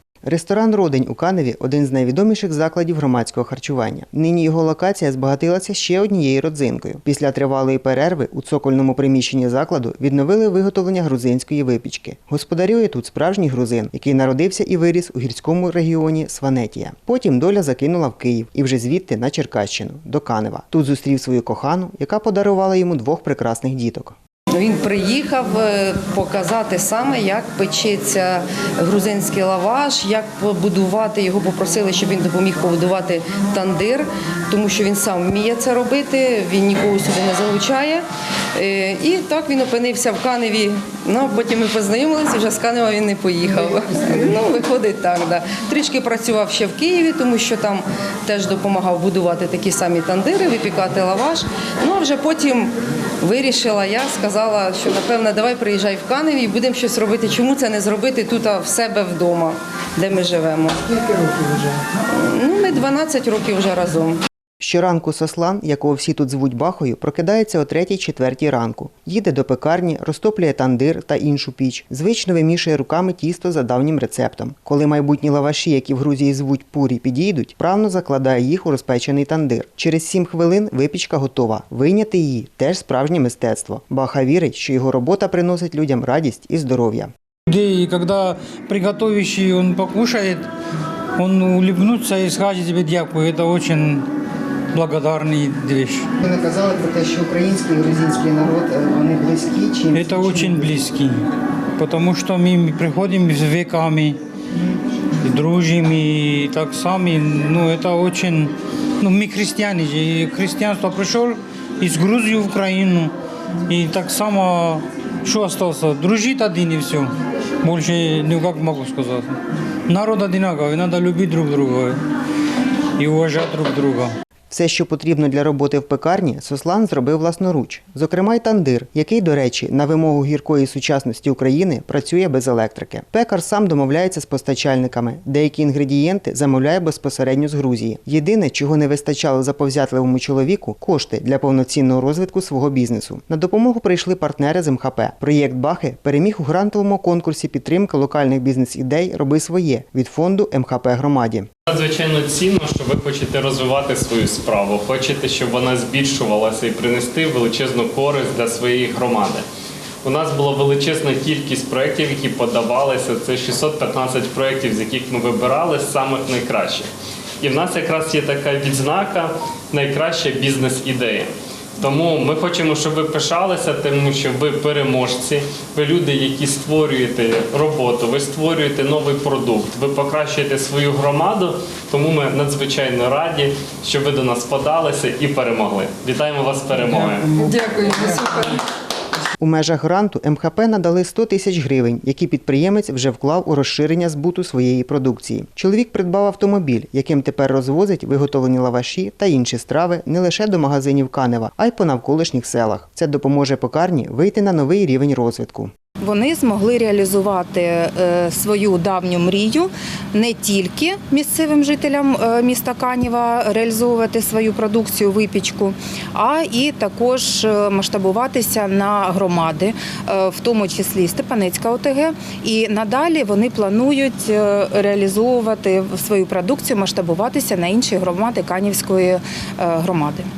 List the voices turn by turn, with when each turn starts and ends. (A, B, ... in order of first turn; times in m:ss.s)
0:00.2-0:24.2 A
0:24.5-0:38.0 B
0:38.6-1:00.9 B
1:00.9-1:01.8 A
1:02.1-1:04.2 B
1:04.6-1:27.1 A
1:27.5-1:30.5 C
1:31.2-1:34.0 C
1:34.7-1:36.1 C
1:36.2-1:40.7 A
1:39.9-1:41.2 C
1:41.8-1:44.2 C
1:45.2-1:53.1 C
1:53.7-1:57.1 C
1:57.6-2:02.0 C
2:03.0-2:04.1 C
2:04.5-2:31.5 A
2:31.7-2:39.4 D
2:40.0-2:46.9 D
2:47.4-3:07.4 D
3:09.4-3:25.7 A
3:26.0-3:50.3 E